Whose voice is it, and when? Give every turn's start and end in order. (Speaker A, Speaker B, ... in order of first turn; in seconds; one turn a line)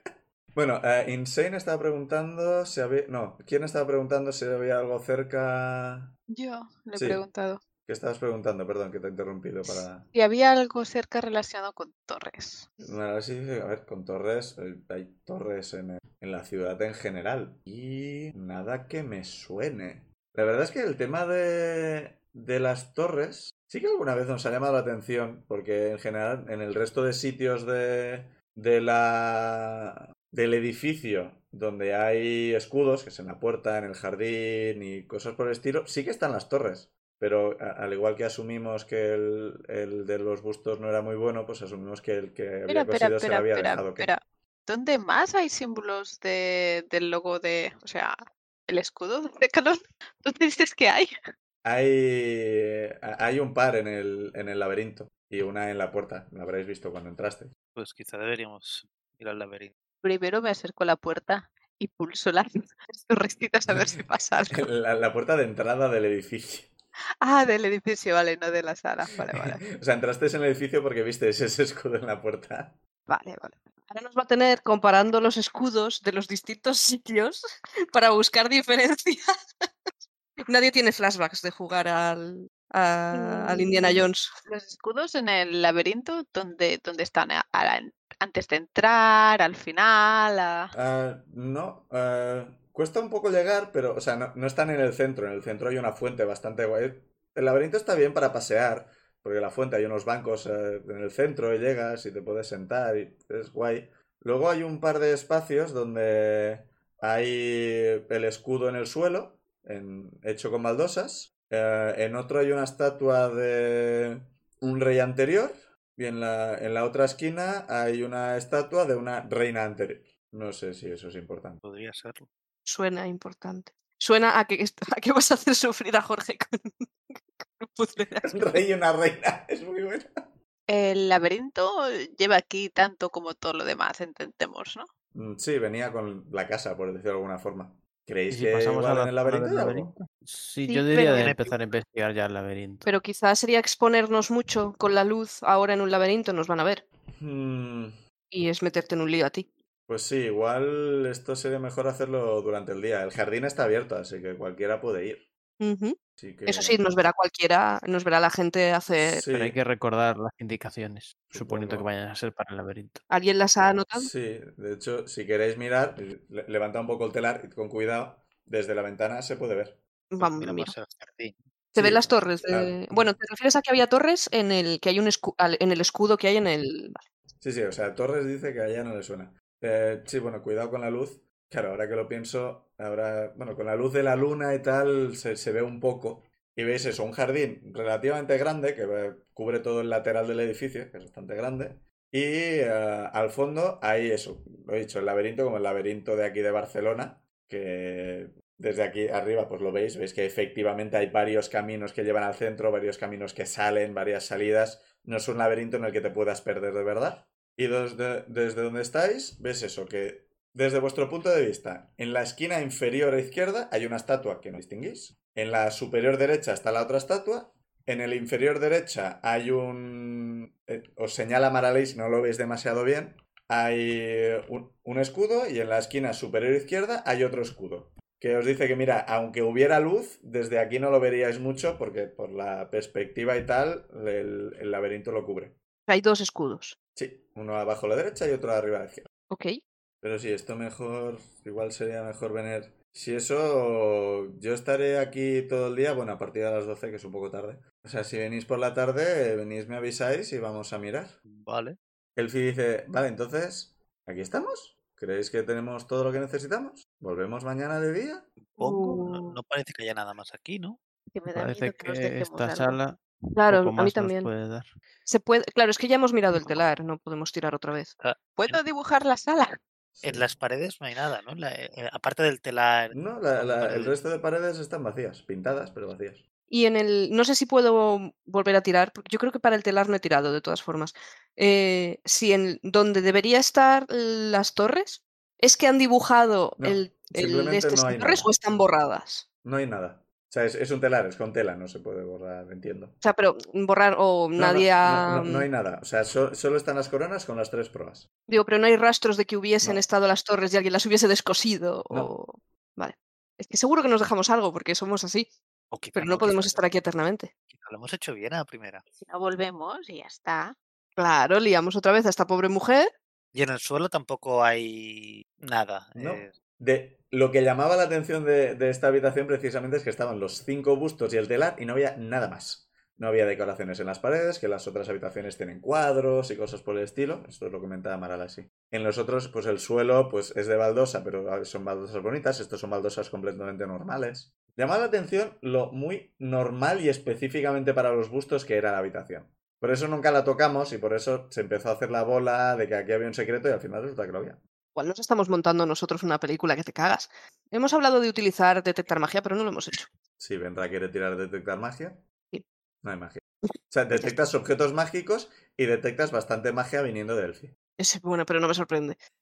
Speaker A: 0.5-6.1
Speaker B: 6.3-7.6
Speaker A: 6.9-7.2
Speaker A: 7.8-10.1
Speaker B: 9.7-12.7
Speaker A: 12.8-44.1
Speaker B: 42.7-48.1
Speaker B: 48.7-51.1
Speaker A: 51.6-57.5
Speaker C: 57.8-59.7
Speaker B: 60.0-64.6
Speaker A: 64.5-66.7
Speaker B: 67.2-69.6
Speaker A: 69.3-72.8
Speaker B: 73.1-73.7
Speaker D: 73.9-77.4
Speaker D: 77.9-79.3
Speaker D: 80.5-84.3
Speaker B: 83.1-90.7
Speaker A: 90.7-121.6
Speaker C: 121.6-122.3
Speaker D: 122.7-126.9
Speaker D: 127.4-128.6
Speaker A: 128.2-130.3
Speaker B: 130.7-134.9
Speaker A: 135.1-140.0
Speaker E: 138.3-142.9
Speaker D: 140.7-141.3
Speaker C: 141.1-141.6
Speaker D: 142.8-146.8
Speaker A: 147.1-147.9
Speaker D: 148.3-149.5
Speaker A: 149.9-155.3
Speaker D: 155.6-159.2
Speaker A: 156.2-156.8
Speaker A: 159.0-159.6
Speaker E: 159.3-163.0
Speaker A: 161.3-161.9
Speaker D: 163.1-164.1
Speaker A: 163.9-169.8
Speaker D: 170.1-170.7
Speaker C: 170.2-171.4
Speaker A: 171.7-173.1
Speaker D: 171.8-177.0
Speaker A: 177.4-235.6
Speaker D: 235.9-236.8
Speaker A: 236.9-239.1
Speaker D: 239.3-239.6
Speaker A: 240.0-251.2
Speaker C: 251.2-251.8
Speaker A: 252.2-258.4
Speaker C: 258.4-260.8
Speaker D: 258.6-259.4
Speaker B: 261.1-262.8
Speaker E: 261.3-264.7
Speaker D: 263.4-264.3
Speaker D: 265.1-267.9
Speaker C: 268.0-268.6
Speaker B: 268.4-269.6
Speaker A: 269.9-270.2
Speaker C: 270.0-274.0
Speaker A: 272.9-276.2
Speaker D: 276.5-289.2
Speaker A: 286.6-288.3
Speaker A: 289.4-292.9
Speaker D: 293.0-295.4
Speaker A: 294.4-298.1
Speaker D: 298.3-305.3
Speaker C: 305.7-306.7
Speaker D: 305.9-307.3
Speaker C: 307.5-308.8
Speaker B: 308.9-310.5
Speaker D: 311.0-312.9
Speaker C: 313.3-316.4
Speaker A: 315.9-344.4
Speaker D: 344.7-349.9
Speaker A: 350.2-352.0
Speaker A: 352.8-357.5
Speaker D: 357.8-359.0